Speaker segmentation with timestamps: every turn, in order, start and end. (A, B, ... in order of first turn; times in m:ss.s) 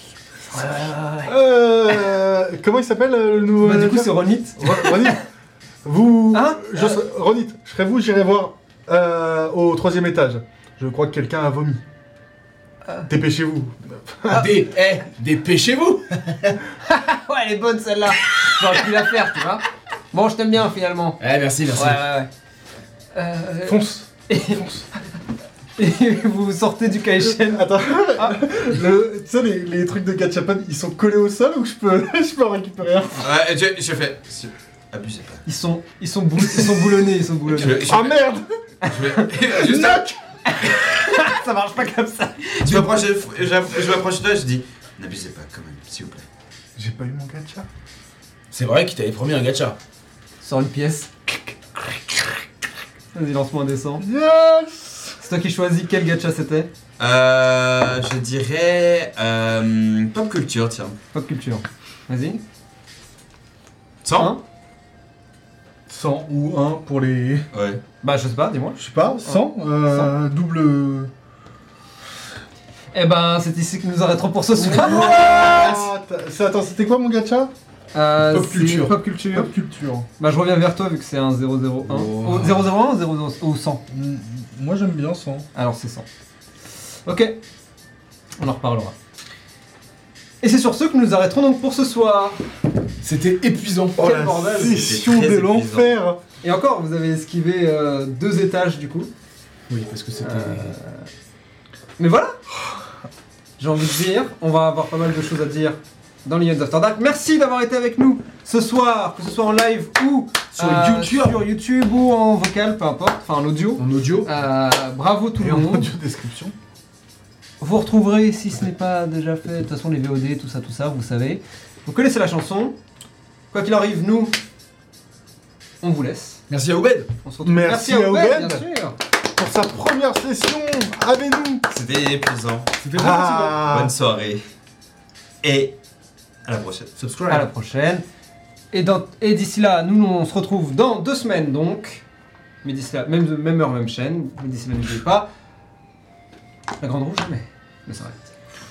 0:00.5-0:01.4 A
0:01.3-0:05.3 B
0:03.6-0:05.2 A
0:05.8-0:11.8 B
0:06.3-0:07.0 A
0:13.1-0:14.5 B
0:14.3-0:16.6 C
0:16.8-0:21.2 A
0:21.2-0:22.0 C
0:21.8-0:22.3 A
0:23.1-0:24.6 A
0:23.6-0:24.8 B
0:25.8-0:28.4 A
0:27.2-0:33.3 B
0:33.2-0:35.4 D
0:35.5-0:37.9 A
0:37.5-0:38.2 D
0:37.8-0:38.5 B
0:38.8-0:39.6 A
0:38.8-0:40.1 D
0:39.5-0:40.2 B
0:40.5-0:42.8 A
0:42.6-0:46.2 D
0:46.8-0:47.7 B
0:48.5-0:49.8 C
0:50.4-0:52.4 A
0:53.1-0:54.1 A
0:54.0-0:55.2 B
0:55.2-0:56.7 A
0:57.0-1:01.0 D
1:01.1-1:02.4 A
1:04.0-1:04.3 D
1:04.2-1:04.4 A
1:05.9-1:07.5 B
1:07.5-1:07.8 D
1:08.0-1:10.1 A
1:08.8-1:11.1 B
1:12.9-1:15.7 A
1:14.6-1:17.5 B
1:14.6-1:15.6 C
1:17.9-1:19.5 A
1:18.3-1:19.0 C
1:19.3-1:20.1 B
1:20.2-1:23.8 A
1:21.9-1:22.5 C
1:23.9-1:25.5 B
1:25.6-1:26.1 A
1:27.1-1:27.4 A
1:28.4-1:29.0 A
1:30.4-1:32.4 A
1:33.0-1:34.1 C
1:34.0-1:36.2 B
1:34.0-1:34.8 A
1:34.6-1:35.9 D
1:36.4-1:39.1 A
1:39.7-1:40.8 C
1:40.2-1:41.1 A
1:42.0-1:42.4 A
1:43.6-1:55.9 A
1:50.6-1:51.4 C
1:53.8-1:54.3 C
1:55.4-1:56.6 B
1:57.6-2:02.8 A
2:03.5-2:04.4 A
2:05.8-2:06.4 A
2:06.5-2:07.1 C
2:07.2-2:09.0 A
2:07.4-2:08.7 B
2:09.4-2:11.7 B
2:11.7-2:12.8 D
2:12.8-2:13.7 C
2:12.9-2:13.9 B
2:13.6-2:14.4 D
2:15.4-2:15.8 D
2:16.4-2:17.0 D
2:17.0-2:17.5 C
2:17.3-2:18.0 A
2:18.7-2:22.0 A
2:22.6-2:25.3 A
2:26.8-2:28.2 A